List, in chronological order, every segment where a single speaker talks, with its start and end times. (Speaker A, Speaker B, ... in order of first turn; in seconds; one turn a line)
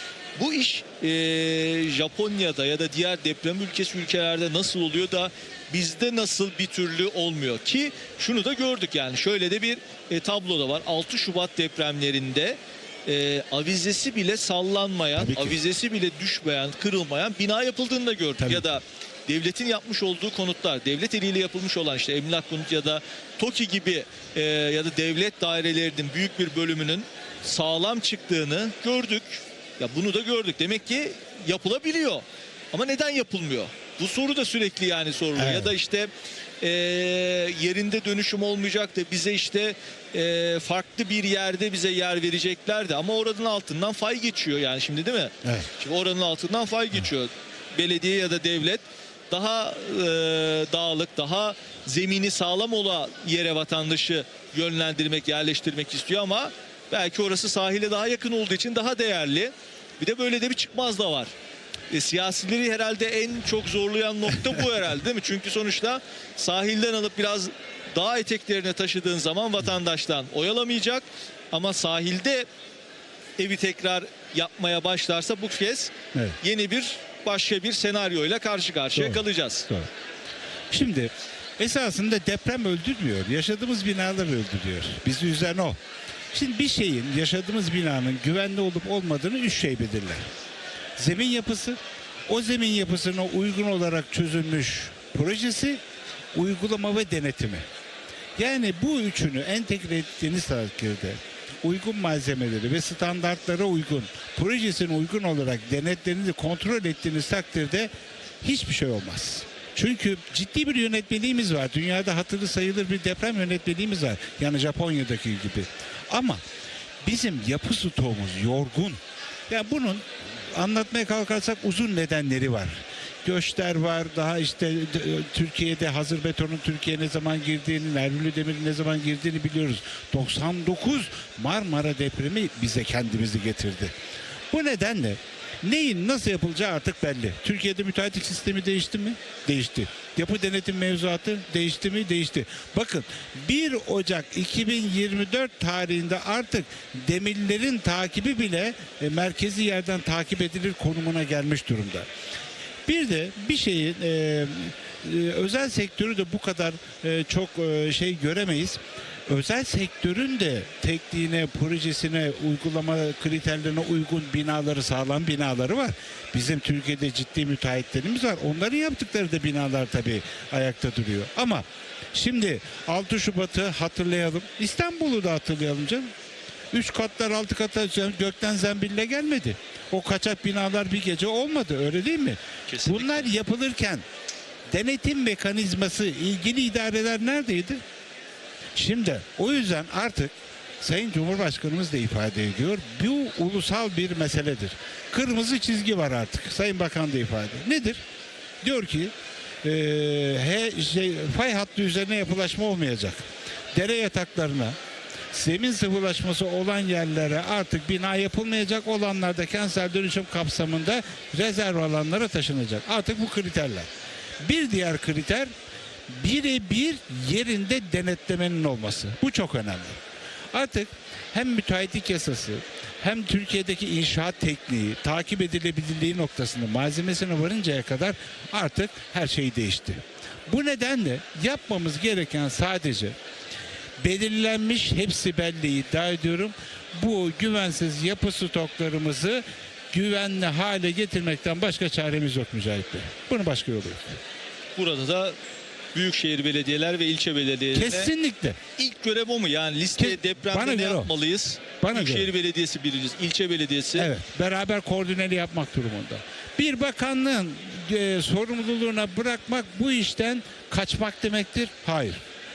Speaker A: 0.4-36.1
Speaker B: 15.1-15.6
Speaker B: 18.4-18.8
Speaker B: 35.4-35.7
Speaker A: 36.6-61.3
Speaker A: 61.9-72.5
Speaker A: 73.4-79.7
Speaker B: 78.9-79.9
Speaker B: 80.7-85.8
Speaker B: 86.3-90.2
Speaker B: 91.0-95.8
Speaker B: 96.3-97.6
Speaker B: 98.4-107.9
Speaker B: 108.4-116.4
Speaker B: 117.0-133.9
Speaker B: 134.5-152.1
Speaker B: 152.8-176.1
Speaker B: 176.7-184.0
Speaker A: 182.7-183.3
Speaker B: 184.7-187.8
Speaker B: 188.7-198.0
Speaker B: 198.6-199.1
Speaker B: 199.6-204.7
Speaker B: 205.3-213.9
Speaker B: 214.4-215.5
Speaker B: 216.1-220.0
Speaker B: 220.5-233.2
Speaker B: 234.0-244.2
Speaker A: 244.8-245.3
Speaker A: 245.9-248.1
Speaker B: 247.7-248.6
Speaker A: 248.8-254.1
Speaker B: 250.0-251.1
Speaker B: 251.8-252.3
Speaker B: 253.9-262.2